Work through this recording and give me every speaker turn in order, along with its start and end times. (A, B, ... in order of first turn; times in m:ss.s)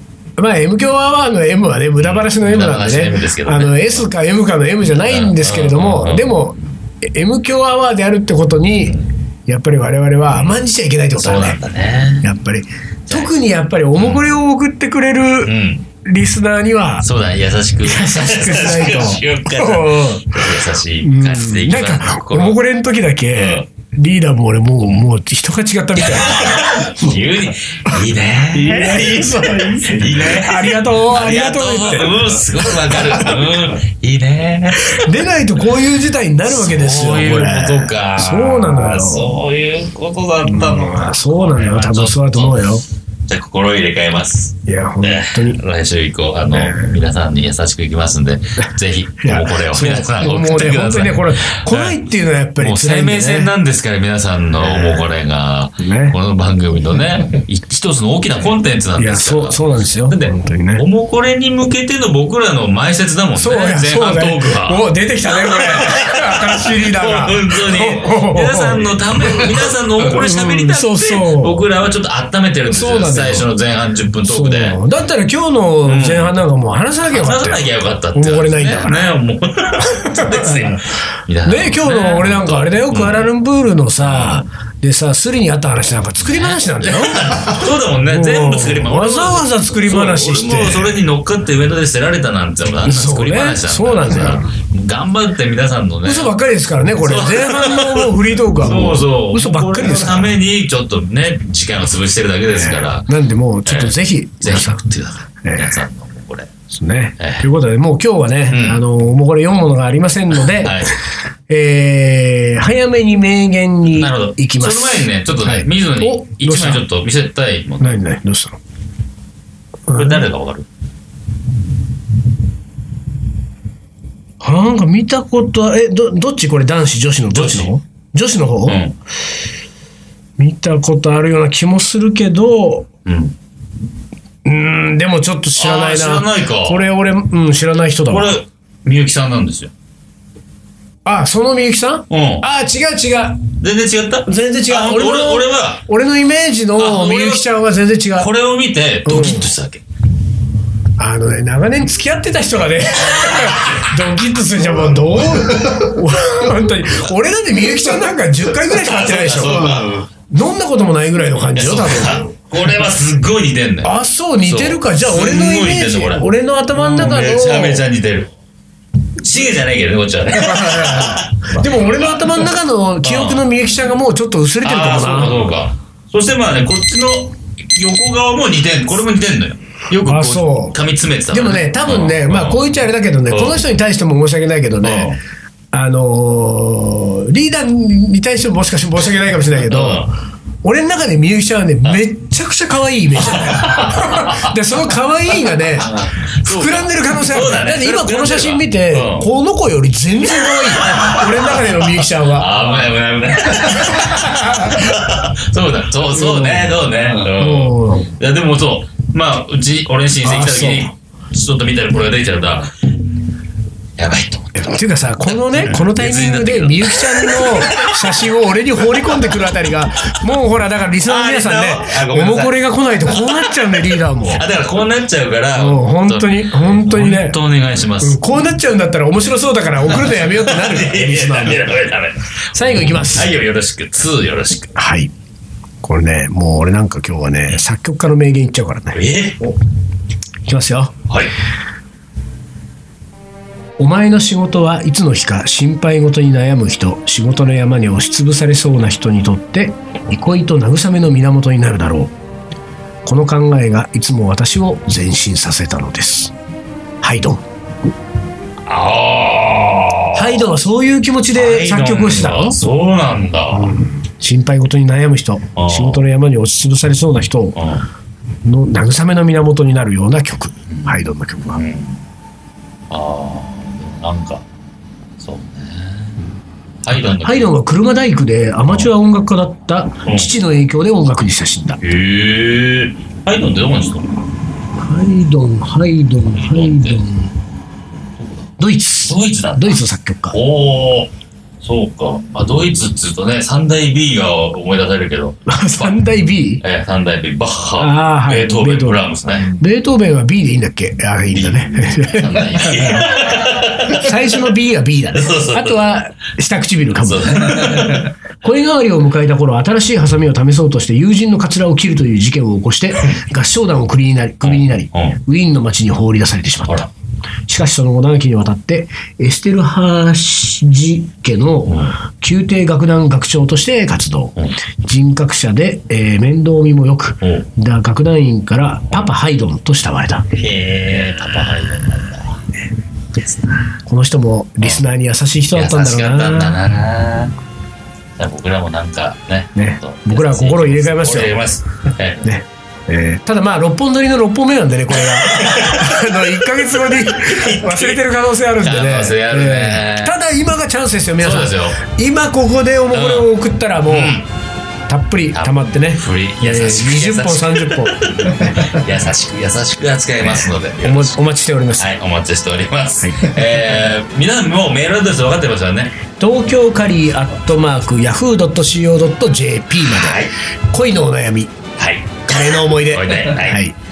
0:00.4-0:11.6 A
0:02.0-0:04.1 B
0:05.0-0:06.5 B
0:08.9-0:09.1 B
0:11.2-0:12.3 B
0:12.2-0:17.1 A
0:13.1-0:13.3 B
0:13.9-0:14.4 B
0:15.4-0:15.9 B
0:17.0-0:22.6 B
0:17.8-0:27.3 A
0:23.3-0:23.7 B
0:26.0-0:35.1 B
0:27.9-0:32.3 A
0:32.8-0:33.5 A
0:34.8-0:39.4 A
0:36.4-0:52.0 B
0:40.4-0:42.8 A
0:44.6-0:45.6 A
0:46.5-0:47.0 A
0:49.2-0:53.6 A
0:52.6-1:14.8 B
0:54.6-0:55.1 A
0:55.8-0:56.2 A
0:59.0-1:00.9 A
1:03.4-1:11.6 A
1:12.7-1:13.5 A
1:14.2-1:19.2 A
1:15.8-1:16.4 B
1:17.1-1:23.3 B
1:19.8-1:31.0 A
1:24.0-1:24.4 B
1:26.2-1:36.3 B
1:32.8-1:34.5 A
1:36.0-1:40.4 A
1:37.0-1:43.1 B
1:42.5-1:44.8 A
1:43.6-1:46.5 B
1:45.4-1:45.8 A
1:46.7-1:50.9 A
1:47.2-1:47.5 B
1:48.5-1:48.8 B
1:50.5-1:51.0 B
1:51.5-1:56.8 A
1:53.9-1:58.0 B
1:57.8-1:58.6 A
1:59.9-2:00.3 A
1:59.9-2:00.7 B
2:04.4-2:08.8 A
2:07.3-2:07.7 B
2:08.7-2:09.0 B
2:10.4-2:12.9 A
2:13.1-2:13.4 B
2:14.4-2:18.4 A
2:15.6-2:16.9 B
2:18.1-2:19.7 B
2:21.0-2:23.5 A
2:22.1-2:22.4 B
2:23.6-2:25.8 B
2:24.3-2:28.3 A
2:26.8-2:27.5 B
2:28.1-2:29.8 B
2:29.0-2:29.5 A
2:31.0-2:42.3 A
2:33.1-2:33.9 B
2:38.7-2:40.1 B
2:41.6-2:48.3 B
2:43.8-2:47.8 A
2:49.2-2:52.4 B
2:50.3-2:55.5 A
2:53.0-2:53.4 B
2:54.6-3:02.8 B
3:00.0-3:00.8 A
3:01.3-3:05.1 A
3:03.3-3:03.6 B
3:04.8-3:05.2 B
3:05.7-3:10.1 A
3:09.7-3:10.1 B
3:10.6-3:22.8 A
3:13.3-3:14.5 B
3:15.7-3:19.3 B
3:20.6-3:32.7 B
3:23.5-3:25.0 A
3:26.1-3:28.1 A
3:30.2-3:30.9 A
3:34.0-3:38.1 B
3:34.6-3:44.4 A
3:41.0-3:48.2 B
3:45.6-3:47.4 A
3:48.0-3:51.7 A
3:49.8-3:54.8 B
3:52.6-3:53.3 A
3:54.8-3:55.1 A
3:55.8-3:59.0 A
3:58.9-3:59.6 B
4:00.4-4:01.0 A
4:03.8-4:12.1 A
4:13.0-4:16.3 A
4:17.0-4:17.4 A
4:18.6-4:20.5 B
4:20.1-4:22.6 A
4:21.3-4:23.8 B
4:23.5-4:27.6 A
4:25.6-4:26.0 B
4:27.6-4:27.9 B
4:28.4-4:31.6 A
4:30.7-4:32.0 B
4:32.9-4:34.4 B
4:35.2-4:36.2 B
4:36.8-4:37.5 B
4:36.9-4:41.8 A
4:40.0-4:40.3 B
4:41.8-4:44.2 B
4:44.8-4:47.3 A
4:46.3-4:47.1 B
4:48.2-4:48.5 B
4:48.6-4:50.4 A
4:49.1-4:49.8 B
4:50.3-4:51.1 B
4:51.6-4:55.9 B
4:55.5-4:56.6 A
4:56.6-4:59.6 B
4:57.8-5:16.9 A
5:01.3-5:04.1 B
5:05.1-5:05.9 B
5:07.0-5:08.1 B
5:14.4-5:15.2 B
5:17.5-5:30.3 A
5:21.7-5:22.0 B
5:27.2-5:27.5 B
5:30.3-5:32.4 B
5:31.0-5:31.6 A
5:33.2-5:33.8 B
5:33.9-5:36.6 A
5:35.5-5:37.4 B
5:38.2-5:42.3 B
5:39.6-5:41.4 A
5:42.2-5:54.2 A
5:45.3-5:45.9 B
5:47.3-5:48.0 B
5:48.6-5:50.2 B
5:51.2-5:51.8 B
5:52.9-5:53.3 B
5:53.9-5:54.3 B
5:54.9-5:58.8 A
5:55.3-6:01.1 B
6:00.3-6:01.9 A
6:01.8-6:06.0 B
6:06.2-6:11.5 A
6:09.9-6:10.3 B
6:11.8-6:13.7 B
6:12.3-6:13.7 A